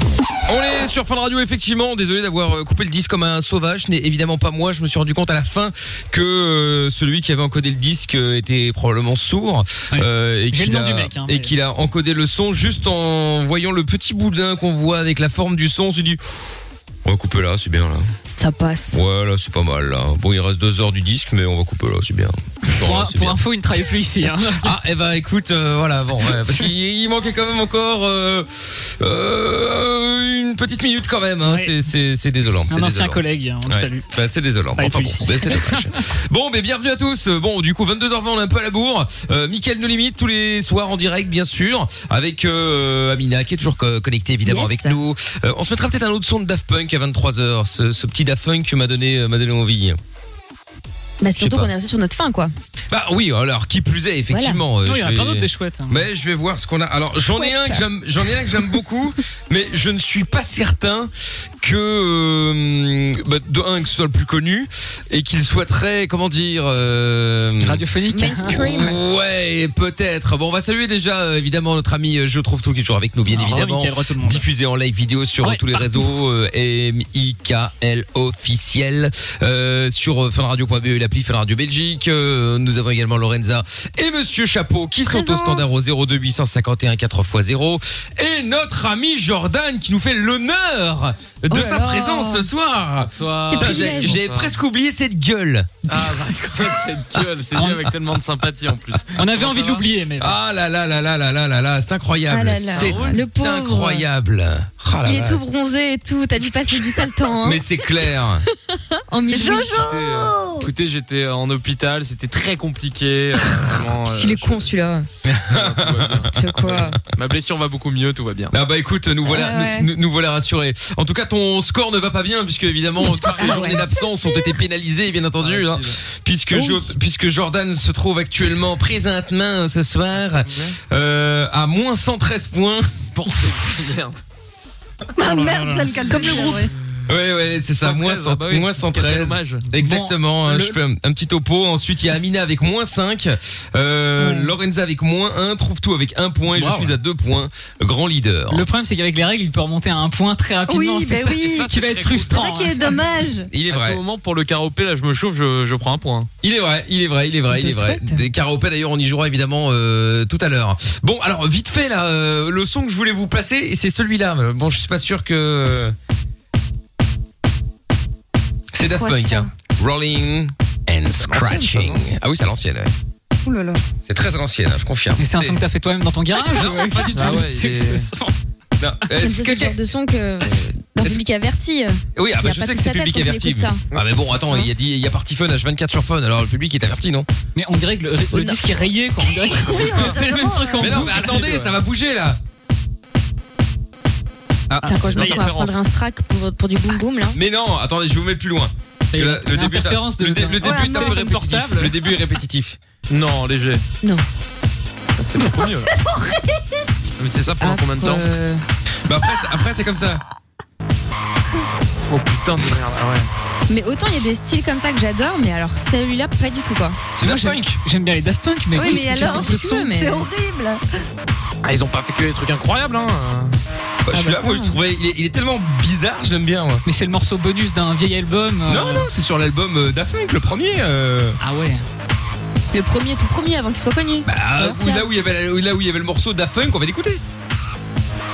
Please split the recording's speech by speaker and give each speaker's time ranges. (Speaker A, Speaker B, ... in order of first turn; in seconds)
Speaker A: 0.5-16.2, 17.1-18.1, 18.9-23.4, 24.5-50.0, 51.4-51.7, 52.9-61.1, 61.6-95.8, 100.2-105.4, 107.2-108.5, 115.2-116.9, 118.5-133.1, 137.1-148.7, 153.5-154.0, 156.4-166.0, 168.7-172.9, 174.1-175.6, 176.5-177.4, 178.8-179.8, 180.4-181.2, 182.2-187.3, 190.8-192.4, 197.3-202.8, 209.1-210.2, 217.2-217.8, 224.1-226.8, 228.7-231.4, 234.2-237.2
Speaker B: 9.9-11.5, 22.7-24.7, 31.4-31.7, 32.7-34.0, 34.8-35.9, 54.8-56.0, 67.6-68.9, 73.3-74.4, 75.4-76.0, 97.5-97.9, 99.1-100.4, 135.2-135.9, 139.8-140.8, 148.5-153.0, 175.2-178.3, 187.6-191.4, 195.2-195.4, 199.1-201.9, 217.2-219.5, 226.9-229.1, 231.4-231.8
Speaker C: 18.3-19.0, 44.4-45.0, 51.2-52.5, 54.3-54.6, 57.4-57.7, 68.1-69.0, 85.1-85.5, 91.5-92.5, 93.5-94.2, 102.3-104.0, 105.0-107.6, 109.1-109.9, 114.0-115.1, 116.3-117.0, 119.3-119.9, 123.4-123.9, 126.5-126.9, 136.1-136.7, 157.5-158.2, 179.2-183.8, 188.3-188.6, 194.8-197.4, 207.6-208.6, 213.7-217.0, 218.8-220.3, 224.1-224.8, 232.7-235.1
Speaker D: 93.0-94.6, 95.9-99.9, 102.7-103.2, 109.7-114.7, 115.5-118.6, 123.3-123.7, 125.4-126.0, 130.2-130.8, 133.2-134.2, 137.8-139.7, 146.5-147.0, 151.4-152.5, 153.6-156.3, 171.2-172.1, 176.8-178.1, 189.6-190.1, 190.7-191.8, 194.8-195.8, 203.1-203.8, 205.2-205.9, 207.2-208.3, 212.1-213.3, 221.6-223.6
Speaker E: 109.3-110.7, 135.2-136.7, 150.7-151.7, 152.3-153.5, 168.9-169.5, 173.4-173.8, 189.7-190.8, 200.6-201.2, 205.4-206.8, 218.7-220.8